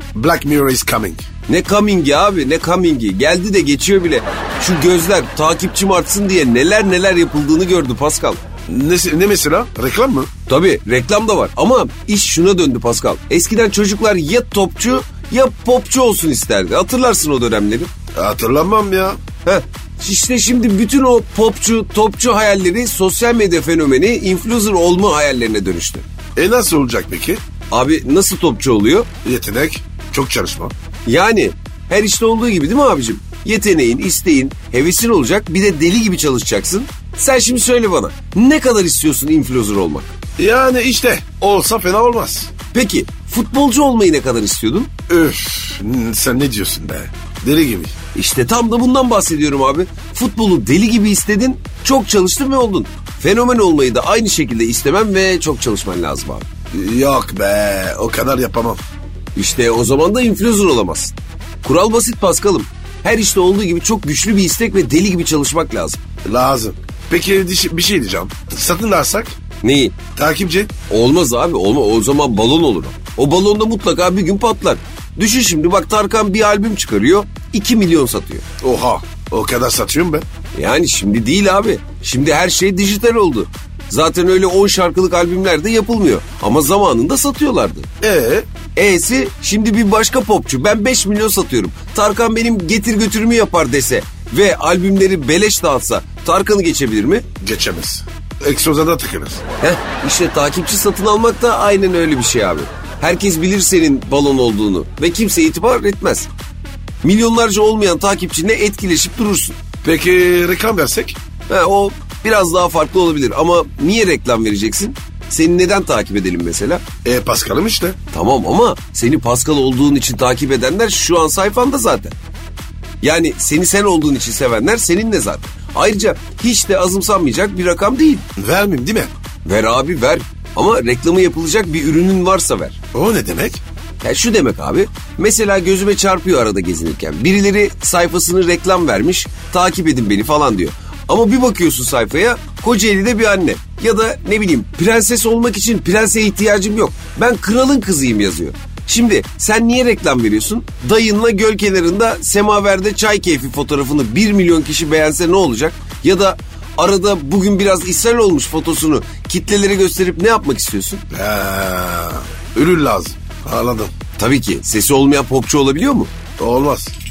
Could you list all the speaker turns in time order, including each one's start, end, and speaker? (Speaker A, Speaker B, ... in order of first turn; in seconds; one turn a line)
Speaker A: 0.1-1.2
Speaker B: 1.5-8.4
Speaker A: 8.7-10.3
Speaker B: 10.5-17.9
Speaker A: 18.1-19.2
Speaker B: 19.4-26.1
Speaker A: 26.4-27.4
Speaker B: 27.7-29.1
Speaker A: 29.2-30.7
Speaker B: 31.1-40.1
Speaker A: 40.4-42.5
Speaker B: 42.7-44.9
Speaker A: 45.1-48.0
Speaker B: 48.1-56.5
Speaker A: 56.7-58.8
Speaker B: 59.4-66.0
Speaker A: 66.2-69.4
Speaker B: 69.6-70.0
Speaker A: 70.1-70.7
Speaker B: 70.9-78.5
Speaker A: 78.6-80.3
Speaker B: 80.5-87.9
Speaker A: 88.0-88.5
Speaker B: 88.8-97.3
Speaker A: 97.4-99.4
Speaker B: 99.6-106.3
Speaker B: 107.0-109.6
Speaker A: 109.8-111.2
Speaker B: 111.5-116.8
Speaker A: 117.0-118.0
Speaker B: 118.1-122.1
Speaker B: 123.0-128.3
Speaker A: 128.4-129.1
Speaker B: 129.4-132.8
Speaker A: 132.9-133.6
Speaker B: 134.0-161.0
Speaker A: 161.1-163.9
Speaker B: 164.2-166.1
Speaker A: 166.4-166.9